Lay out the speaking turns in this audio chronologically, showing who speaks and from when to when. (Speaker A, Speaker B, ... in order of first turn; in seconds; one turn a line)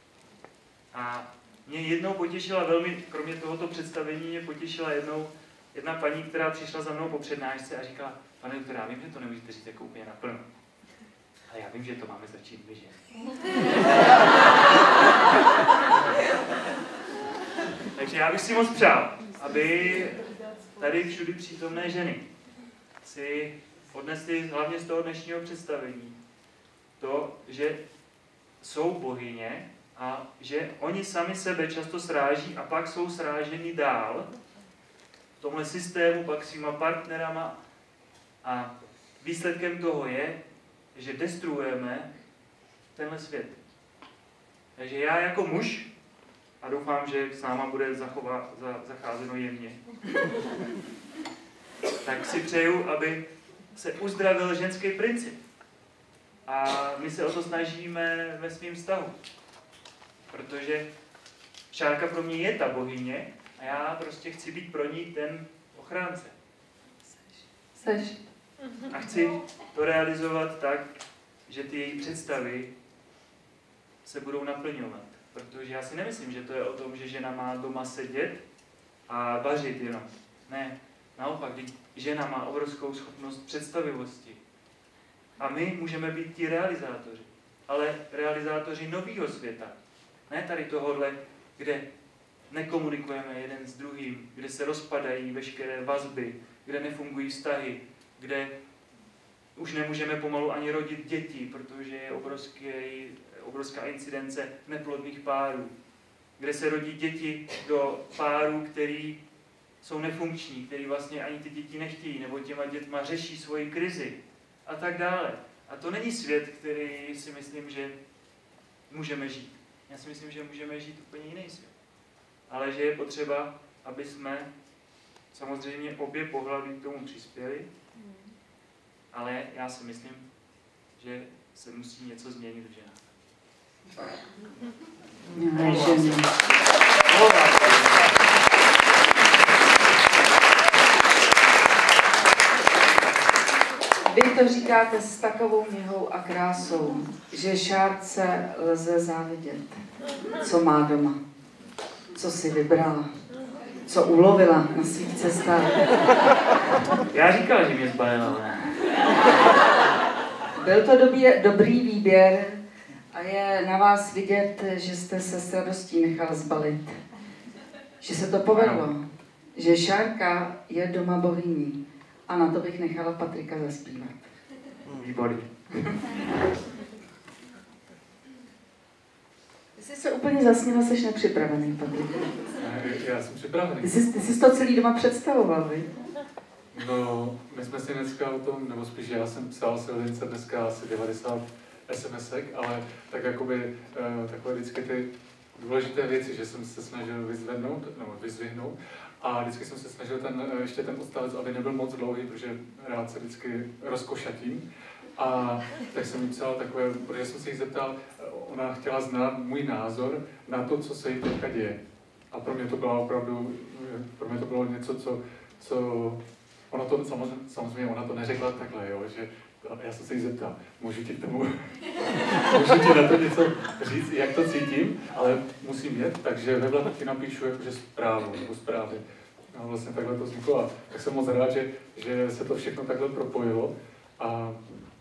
Speaker A: 0.9-10.4
Speaker A: 11.5-13.0
Speaker A: 17.9-22.2
Speaker A: 23.0-26.2
Speaker A: 27.0-27.8
Speaker A: 28.6-34.3
Speaker A: 35.4-37.5
Speaker A: 38.4-40.4
Speaker A: 41.0-42.1
Speaker A: 43.0-43.6
Speaker A: 44.8-45.9
Speaker A: 46.6-49.8
Speaker A: 52.0-53.2
Speaker A: 53.7-55.4
Speaker A: 56.5-59.1
Speaker A: 60.3-60.9
Speaker A: 61.7-66.3
Speaker B: 67.8-68.2
Speaker A: 68.8-70.9
Speaker A: 71.5-72.7
Speaker A: 74.0-78.4
Speaker A: 79.1-84.4
Speaker A: 85.4-89.8
Speaker A: 90.3-91.8
Speaker A: 92.5-98.5
Speaker A: 99.6-105.7
Speaker A: 106.4-109.2
Speaker A: 109.8-118.0
Speaker A: 118.9-121.7
Speaker A: 122.5-124.5
Speaker A: 125.3-127.7
Speaker A: 129.1-130.2
Speaker A: 131.0-133.0
Speaker B: 135.3-136.3
Speaker A: 135.5-138.2
Speaker B: 144.1-149.8
Speaker B: 150.4-151.2
Speaker B: 152.2-153.1
Speaker B: 153.9-155.8
Speaker A: 157.1-158.8
Speaker B: 160.6-162.6
Speaker B: 163.1-167.0
Speaker B: 168.0-169.0
Speaker A: 168.6-168.8
Speaker B: 169.6-174.2
Speaker A: 175.0-175.5
Speaker B: 179.8-182.3
Speaker C: 182.6-184.0
Speaker B: 183.8-185.9
Speaker C: 186.7-204.7
Speaker C: 205.2-211.8
Speaker C: 212.3-229.0
Speaker C: 229.5-234.8